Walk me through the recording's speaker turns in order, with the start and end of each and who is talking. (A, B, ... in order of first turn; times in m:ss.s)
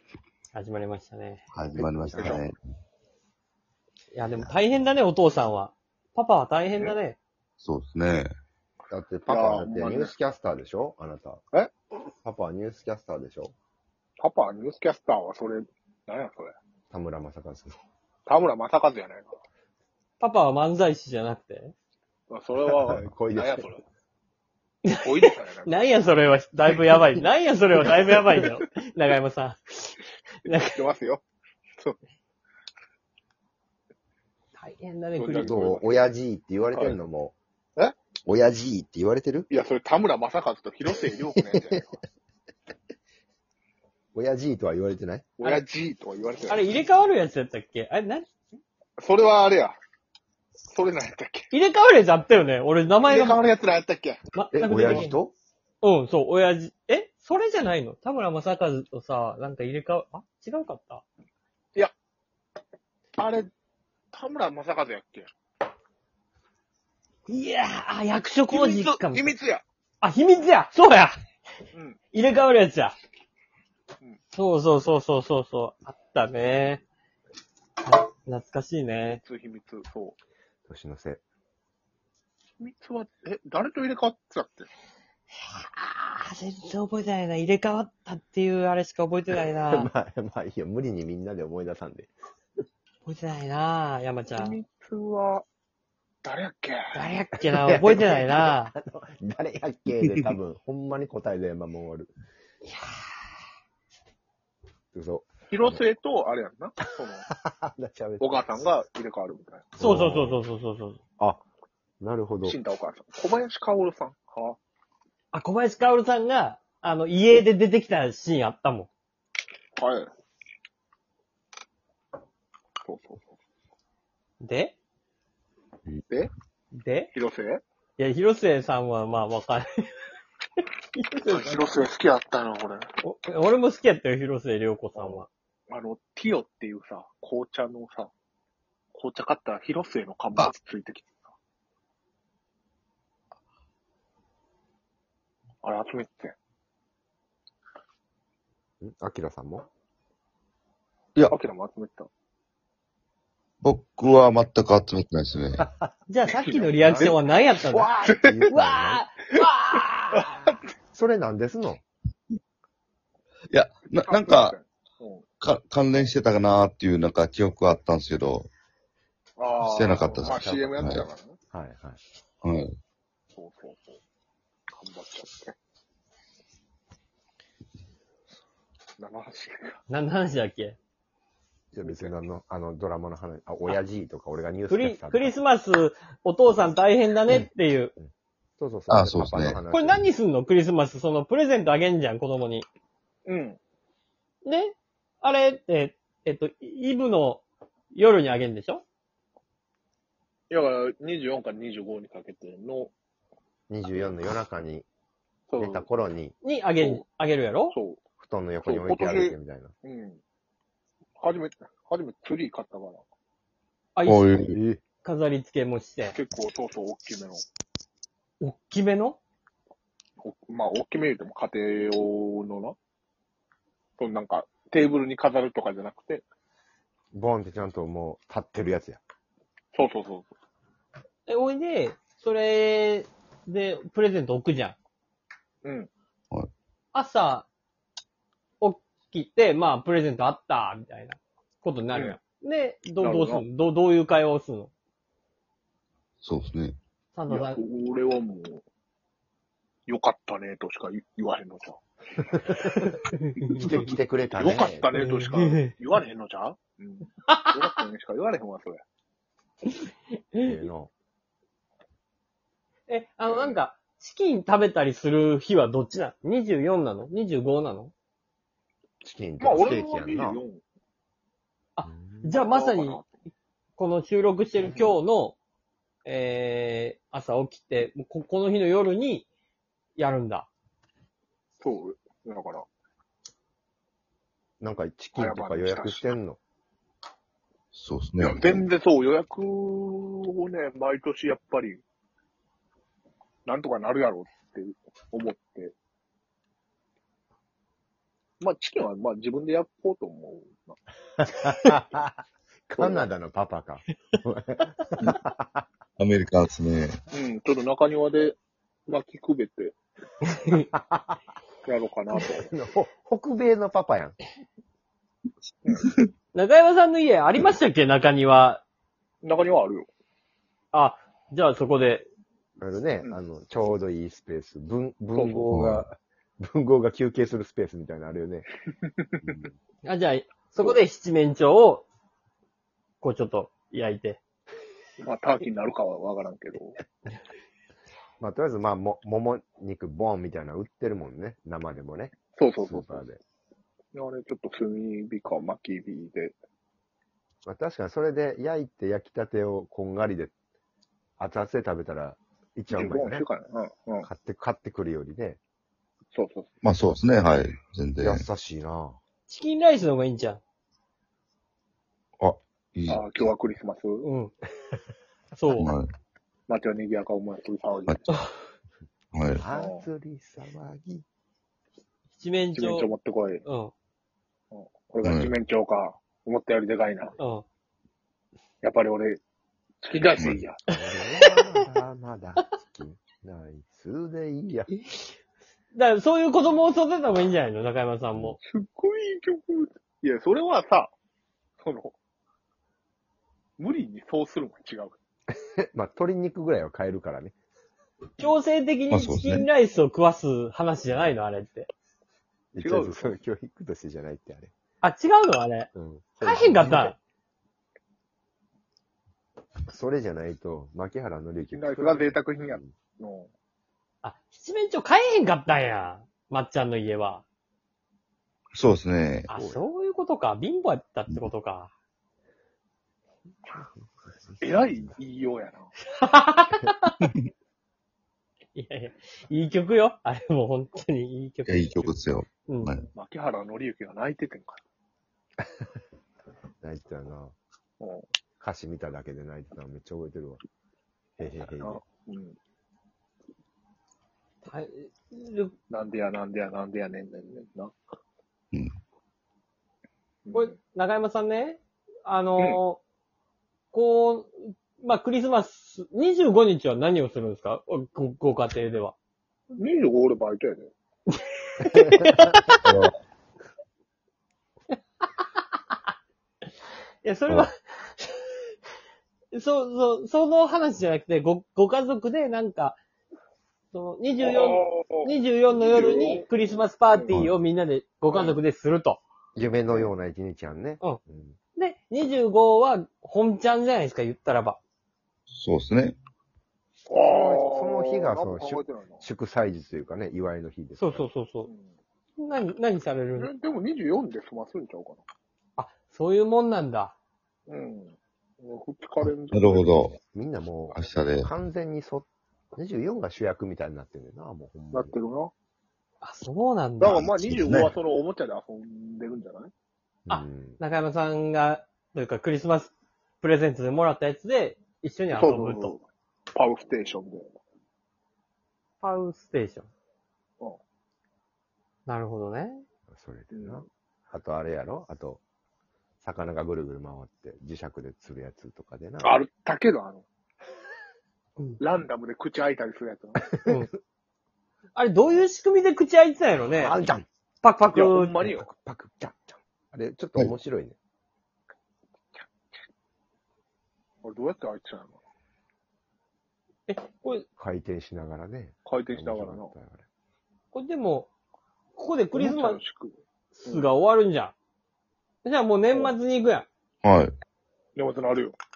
0:00.5-0:01.4 A
0:01.5-0:02.6 B
0:01.7-0:02.4 C
0:04.1-0:07.2 A
0:07.6-0:08.3 B
0:08.9-0:11.4 C
0:09.3-0:10.1 D
0:12.2-0:13.5 C
0:14.2-0:16.5 D
0:16.9-0:17.8 C
0:18.2-0:19.3 D
0:20.2-0:21.7 A
0:22.3-0:23.8 D
0:22.7-0:23.6 C
0:25.0-0:25.9 D
0:25.6-0:30.8 A
0:30.4-0:31.2 D
0:34.6-0:35.5 A
0:35.2-0:36.1 D
0:35.4-0:37.4 C
0:36.7-0:37.0 D
0:38.3-0:39.5 C
0:39.5-0:42.0 D
0:41.3-0:41.9 C
0:44.1-0:45.3 C
0:45.4-0:46.6 D
0:46.5-0:48.3 A
0:49.0-0:49.8 D
0:50.7-0:51.5 D
0:51.5-0:53.4 A
0:53.0-0:54.2 D
0:54.3-0:55.2 A
0:54.5-0:55.3 C
0:54.8-0:55.1 D
0:55.8-1:01.0 A
1:03.2-1:03.5 D
1:04.1-1:05.3 D
1:07.2-1:09.3 A
1:08.5-1:09.6 D
1:10.0-1:11.1 A
1:11.7-1:12.0 D
1:12.1-1:13.0 A
1:14.3-1:16.8 A
1:17.8-1:19.2 A
1:19.1-1:20.2 D
1:20.7-1:21.2 C
1:22.6-1:24.7 D
1:25.5-1:29.9 A
1:29.3-1:32.1 C
1:33.0-1:34.6 A
1:34.3-1:35.4 D
1:36.2-1:36.9 D
1:36.9-1:38.7 A
1:37.4-1:42.1 C
1:44.9-1:45.8 C
1:45.5-1:47.3 D
1:47.3-1:48.6 C
1:48.2-1:49.7 D
1:49.8-1:50.4 C
1:49.8-1:51.0 A
1:52.0-1:52.6 C
1:52.4-1:54.6 D
1:55.3-1:58.9 A
1:59.8-2:00.1 D
2:02.8-2:03.3 D
2:04.4-2:04.8 A
2:06.7-2:07.1 A
2:07.1-2:07.6 D
2:08.0-2:09.7 A
2:10.9-2:11.6 A
2:11.2-2:12.9 D
2:13.0-2:15.3 A
2:15.0-2:18.1 D
2:18.9-2:21.3 D
2:25.6-2:26.4 D
2:28.8-2:29.6 C
2:31.3-2:32.1 D
2:33.6-2:35.6 B
2:35.6-2:35.9 C
2:36.1-2:38.0 A
2:36.4-2:37.1 D
2:36.7-2:37.2 C
2:37.7-2:38.5 D
2:37.8-2:39.0 C
2:38.5-2:40.6 A
2:40.1-2:40.6 D
2:40.9-2:41.8 C
2:43.5-2:44.6 B
2:44.0-2:45.2 D
2:45.4-2:48.5 B
2:49.4-2:51.4 D
2:49.6-2:51.1 B
2:50.1-2:50.9 C
2:51.5-2:52.0 C
2:52.4-2:52.8 B
2:53.3-2:54.0 D
2:54.7-2:55.6 D
2:59.0-2:59.8 D
2:59.9-3:00.8 A
3:01.7-3:05.3 C
3:01.8-3:02.1 D
3:04.7-3:07.9 A
3:08.0-3:10.1 C
3:08.9-3:09.6 B
3:09.7-3:12.7 A
3:13.2-3:13.6 D
3:14.4-3:18.8 A
3:20.5-3:22.9 D
3:23.7-3:24.8 C
3:25.5-3:25.9 D
3:25.6-3:26.3 C
3:26.4-3:27.8 A
3:26.8-3:27.0 D
3:27.7-3:28.0 D
3:28.2-3:29.7 C
3:28.6-3:30.2 D
3:31.2-3:33.0 D
3:34.0-3:34.4 A
3:34.0-3:34.6 B
3:34.5-3:34.8 C
3:35.0-3:36.2 A
3:36.1-3:37.4 D
3:38.4-3:39.2 A
3:40.2-3:42.8 D
3:44.0-3:46.2 D
3:47.1-3:49.0 C
3:49.7-3:50.3 D
3:51.3-3:54.8 A
3:55.6-3:55.9 D
3:56.9-3:57.5 A
3:58.6-4:04.7 A
4:01.9-4:02.2 D
4:03.0-4:03.4 D
4:06.2-4:06.8 B
4:07.1-4:07.6 A
4:07.3-4:08.6 D
4:09.9-4:11.8 D
4:12.4-4:13.0 D
4:13.1-4:13.7 A
4:13.5-4:18.8 D
4:13.5-4:14.9 C
4:14.9-4:15.7 A
4:17.3-4:17.6 A
4:20.4-4:20.9 C
4:22.9-4:27.9 A
4:23.2-4:23.6 D
4:29.0-4:30.4 C
4:29.4-4:30.6 D
4:31.8-4:33.0 A
4:31.8-4:32.3 C
4:32.3-4:33.1 D
4:33.8-4:35.4 A
4:36.0-4:39.3 A
4:40.0-4:40.5 A
4:41.6-4:42.6 D
4:44.6-4:46.4 C
4:45.2-4:46.2 D
4:47.7-4:48.6 B
4:48.2-4:51.8 D
4:53.4-4:55.7 D
4:58.4-5:00.8 D
5:01.2-5:05.6 C
5:02.8-5:03.1 D
5:06.0-5:07.0 B
5:07.1-5:09.8 D
5:10.3-5:10.6 A
5:10.7-5:11.2 C
5:11.6-5:12.5 D
5:12.2-5:14.2 C
5:16.3-5:18.6 A
5:19.2-5:19.9 D
5:20.7-5:22.1 A
5:22.6-5:28.5 C
5:25.1-5:25.4 D
5:25.5-5:25.8 B
5:29.8-5:31.8 A
5:33.0-5:34.2 A
5:35.0-5:36.8 D
5:38.2-5:43.2 C
5:42.3-5:43.0 D
5:43.9-5:46.3 D
5:47.4-5:50.3 C
5:51.2-5:53.2 C
5:52.7-5:54.1 D
5:54.0-5:55.4 C
5:56.1-5:56.5 D
5:56.6-5:58.2 B
5:58.0-5:59.0 C
5:59.3-6:00.4 A
6:02.2-6:03.2 B
6:02.9-6:04.0 D
6:04.0-6:04.3 A
6:05.3-6:05.7 A
6:05.5-6:05.9 B
6:06.5-6:08.0 D
6:09.1-6:09.4 B
6:09.3-6:11.0 C
6:09.5-6:09.8 D
6:12.1-6:12.9 A
6:12.6-6:13.4 D
6:13.4-6:13.7 A
6:14.5-6:17.2 D
6:15.0-6:15.3 B
6:17.2-6:17.4 A
6:18.6-6:19.2 D
6:19.8-6:20.6 D
6:20.2-6:20.4 B
6:20.7-6:24.7 C
6:21.0-6:21.6 A
6:24.7-6:25.1 A
6:25.7-6:28.4 A
6:28.4-6:30.9 D
6:31.6-6:31.9 D
6:33.6-6:35.0 D
6:35.3-6:37.3 C
6:38.2-6:41.7 A
6:38.9-6:39.4 B
6:42.5-6:44.5 C
6:42.6-6:43.2 D
6:44.8-6:45.7 A
6:45.7-6:46.9 C
6:46.2-6:47.0 A
6:49.7-6:52.7 C
6:51.5-6:53.3 D
6:54.0-6:57.2 A
6:58.5-6:59.3 B
6:59.3-6:59.6 C
6:59.3-7:01.7 A
7:04.3-7:04.9 C
7:04.4-7:05.7 D
7:05.9-7:07.0 A
7:08.5-7:12.7 A
7:11.5-7:12.9 B
7:12.9-7:14.6 D
7:16.6-7:17.3 C
7:17.8-7:18.0 D
7:18.4-7:20.4 C
7:21.2-7:21.8 C
7:21.6-7:22.4 D
7:24.4-7:25.6 A
7:25.7-7:27.8 D
7:30.2-7:30.5 D
7:30.3-7:32.8 A
7:33.7-7:38.9 A
7:39.6-7:40.7 D
7:41.6-7:42.6 A
7:42.6-7:42.9 B
7:47.0-7:48.2 A
7:49.3-7:52.8 A
7:53.7-7:59.0 A
7:54.2-7:56.3 D
7:58.1-7:58.4 D
7:59.4-8:01.4 C
8:01.6-8:04.6 A
8:05.3-8:06.0 B
8:06.9-8:09.0 D
8:07.1-8:11.1 C
8:10.8-8:11.5 A
8:11.4-8:11.7 D
8:12.2-8:13.3 A
8:13.1-8:15.0 D
8:15.6-8:16.9 A
8:17.5-8:19.8 D
8:19.0-8:20.0 B
8:20.1-8:24.9 C
8:20.7-8:21.3 B
8:24.7-8:25.3 D
8:26.0-8:27.0 A
8:26.8-8:29.5 D
8:26.9-8:27.7 B
8:30.0-8:30.6 C
8:30.1-8:35.7 A
8:35.1-8:37.3 D
8:38.8-8:39.7 A
8:41.8-8:42.6 A
8:42.9-8:45.2 C
8:43.3-8:43.6 D
8:46.0-8:49.2 C
8:49.0-8:50.0 D
8:51.6-8:53.3 D
8:53.4-8:53.7 A
8:54.7-8:56.8 A
8:56.4-8:57.1 C
8:57.4-8:58.2 A
8:57.7-8:58.5 D
8:58.2-9:00.8 C
9:04.0-9:05.0 D
9:06.7-9:07.2 A
9:07.4-9:09.8 C
9:08.6-9:09.5 D
9:10.5-9:11.1 A
9:11.8-9:12.6 A
9:12.1-9:13.7 D
9:13.3-9:14.3 A
9:15.2-9:16.5 A
9:15.7-9:16.0 D
9:16.8-9:17.1 B
9:17.8-9:18.4 D